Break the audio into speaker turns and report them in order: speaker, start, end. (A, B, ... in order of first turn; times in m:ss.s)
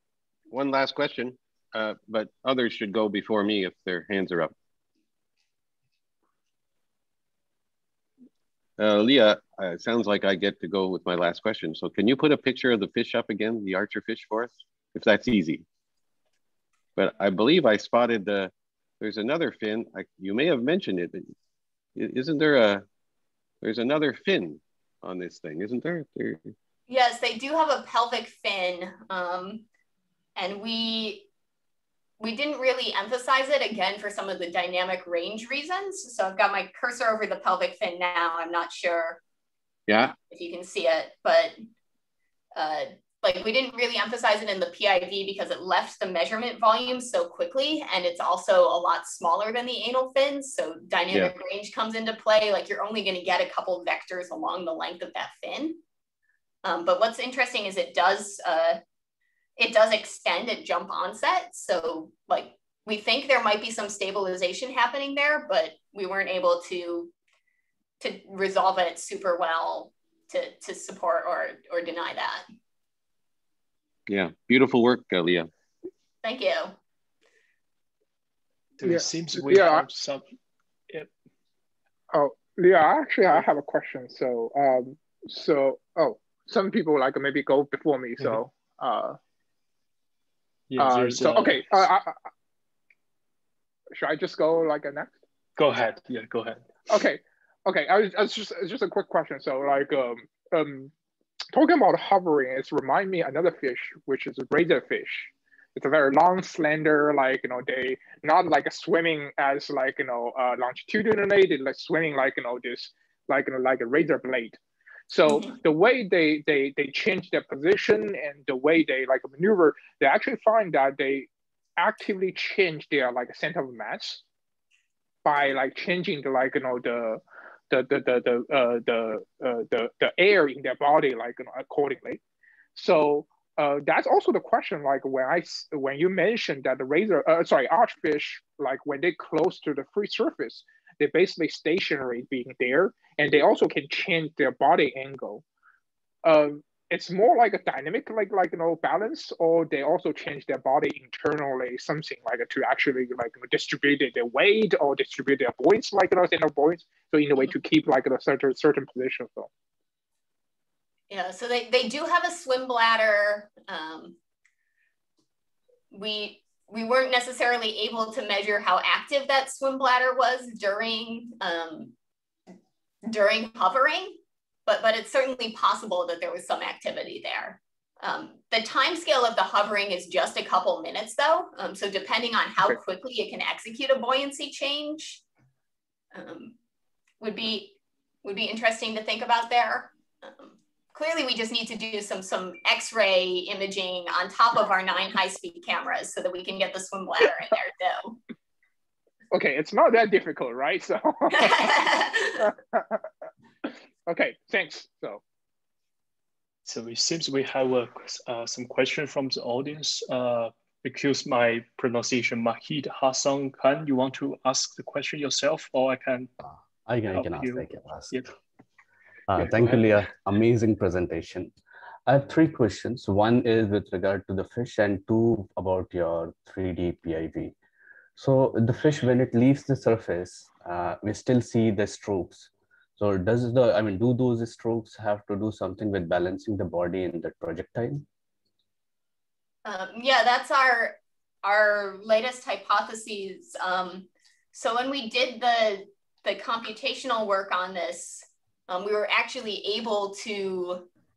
0:00.5-0:04.5 A
0:08.8-0:15.6 A
0:17.0-0:21.2 A
0:22.0-0:22.8 A
0:23.6-0:26.5 A
0:26.9-0:29.6 B
0:30.4-0:31.3 B
0:32.2-0:39.2 B
0:39.9-0:40.1 A
0:40.0-0:41.5 B
0:42.6-0:55.8 B
0:56.6-0:58.8 B
0:59.6-1:07.1 B
1:08.0-1:12.4 B
1:14.1-1:15.5 A
1:16.2-1:16.7 B
1:18.8-1:20.2 C
1:18.8-1:19.8 D
1:22.1-1:29.2 D
1:30.7-1:31.8 C
1:30.8-1:32.2 D
1:33.9-1:35.2 D
1:35.6-1:36.7 C
1:36.9-1:40.9 D
1:41.5-2:04.2 D
1:55.2-1:55.6 B
2:05.2-2:12.2 D
2:12.7-2:25.4 D
2:26.2-2:39.5 D
2:41.1-2:44.2 B
2:45.9-2:51.9 B
2:53.0-3:05.2 B
3:06.1-3:06.5 B
3:07.2-3:18.2 B
3:19.3-3:21.7 D
3:21.3-3:22.5 B
3:22.4-3:23.0 D
3:24.1-3:25.2 D
3:26.6-3:36.3 C
3:36.4-3:38.2 E
3:37.1-3:38.3 C
3:39.3-3:41.5 E
3:39.4-3:39.7 C
3:42.0-3:47.5 E
3:48.2-3:58.0 E
3:59.6-4:10.9 B